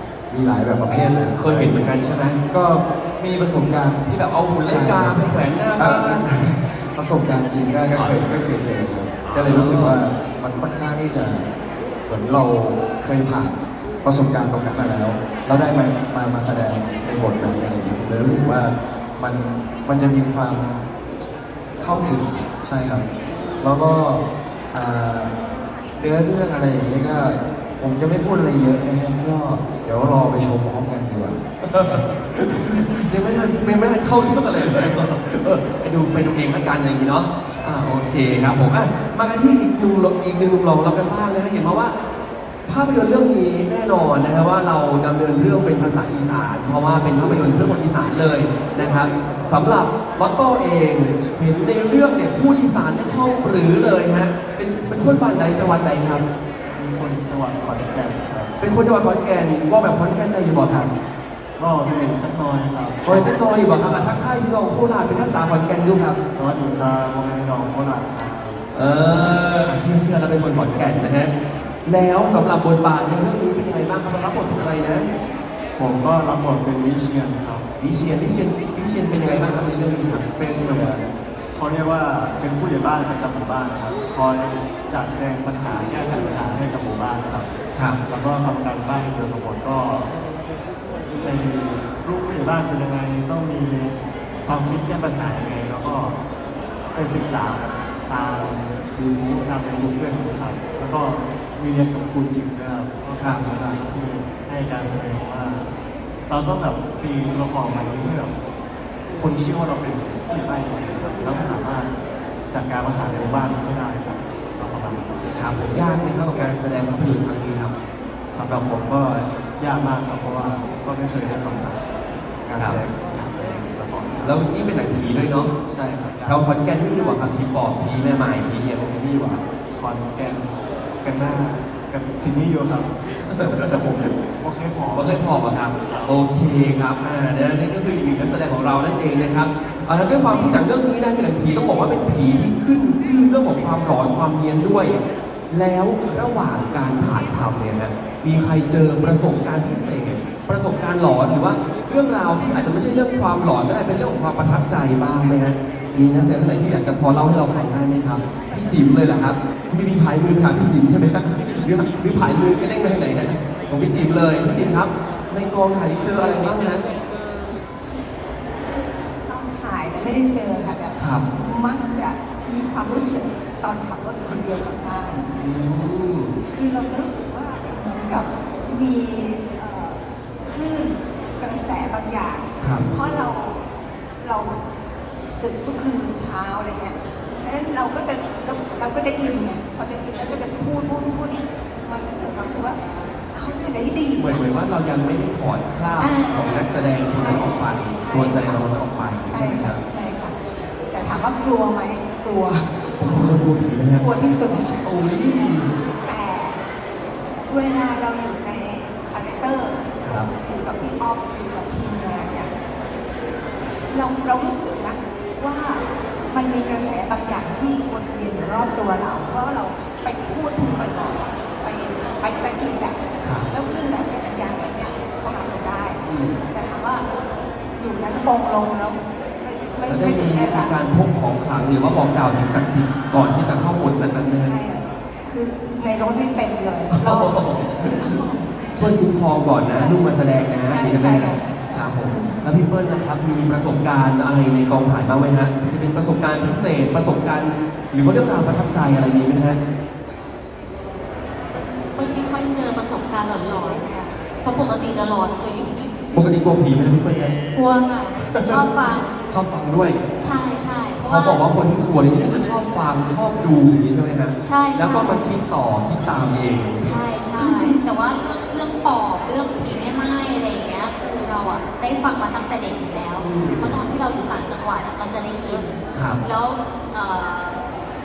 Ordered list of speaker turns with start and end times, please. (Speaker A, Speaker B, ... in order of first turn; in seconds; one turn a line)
Speaker A: 0.3-1.8
Speaker B: 1.4-2.4
Speaker A: 2.5-4.0
Speaker B: 4.0-6.3
Speaker A: 4.6-11.5
Speaker B: 7.9-8.2
Speaker B: 9.2-9.9
Speaker A: 12.1-20.9
Speaker A: 21.8-23.1
Speaker A: 23.6-25.3
Speaker A: 25.9-31.4
Speaker B: 31.6-42.0
Speaker B: 42.6-56.2
Speaker C: 56.6-58.5
Speaker B: 58.6-60.9
Speaker C: 61.6-64.2
Speaker B: 63.0-66.2
Speaker C: 66.3-69.4
Speaker B: 68.7-75.1
Speaker C: 75.8-77.7
Speaker B: 77.8-80.2
Speaker C: 80.4-87.5
Speaker B: 87.7-88.0
Speaker C: 88.1-90.1
Speaker C: 91.2-96.2
Speaker C: 96.9-105.6
Speaker B: 103.2-103.4
Speaker C: 106.3-108.3
Speaker C: 109.2-111.9
Speaker C: 112.5-115.2
Speaker B: 115.3-117.7
Speaker C: 118.3-121.8
Speaker C: 122.5-124.4
Speaker B: 122.5-122.8
Speaker B: 124.2-125.5
Speaker C: 125.7-126.4
Speaker B: 126.2-129.4
Speaker C: 129.7-135.3
Speaker B: 133.2-134.1
Speaker B: 134.9-144.9
Speaker C: 135.8-136.2
Speaker B: 145.5-166.8
Speaker D: 169.3-175.4
Speaker B: 170.9-171.2
Speaker B: 175.3-176.3
Speaker D: 176.5-183.7
Speaker B: 182.6-182.9
Speaker D: 184.2-184.6
Speaker D: 185.4-192.8
Speaker D: 193.3-194.5
Speaker B: 194.2-199.8
Speaker D: 196.0-198.7
Speaker D: 199.2-200.3
Speaker D: 200.9-203.4
Speaker B: 203.0-204.1
Speaker D: 204.0-204.8
Speaker B: 204.8-205.7
Speaker D: 206.0-206.7
Speaker D: 207.4-212.5
Speaker B: 210.0-210.3
Speaker D: 213.9-227.1
Speaker B: 223.2-223.5
Speaker B: 226.0-226.4
Speaker D: 227.8-230.8
Speaker B: 229.8-234.6
Speaker D: 234.4-239.1
Speaker B: 236.9-249.6
Speaker D: 239.7-240.1
Speaker D: 240.6-242.4
Speaker E: 251.5-256.3
Speaker B: 256.1-257.3
Speaker E: 257.5-259.2
Speaker B: 258.2-258.7
Speaker B: 259.3-260.0
Speaker E: 260.2-261.7
Speaker B: 261.0-267.8
Speaker E: 264.4-265.2
Speaker E: 266.8-277.6
Speaker B: 273.2-273.8
Speaker B: 275.9-276.2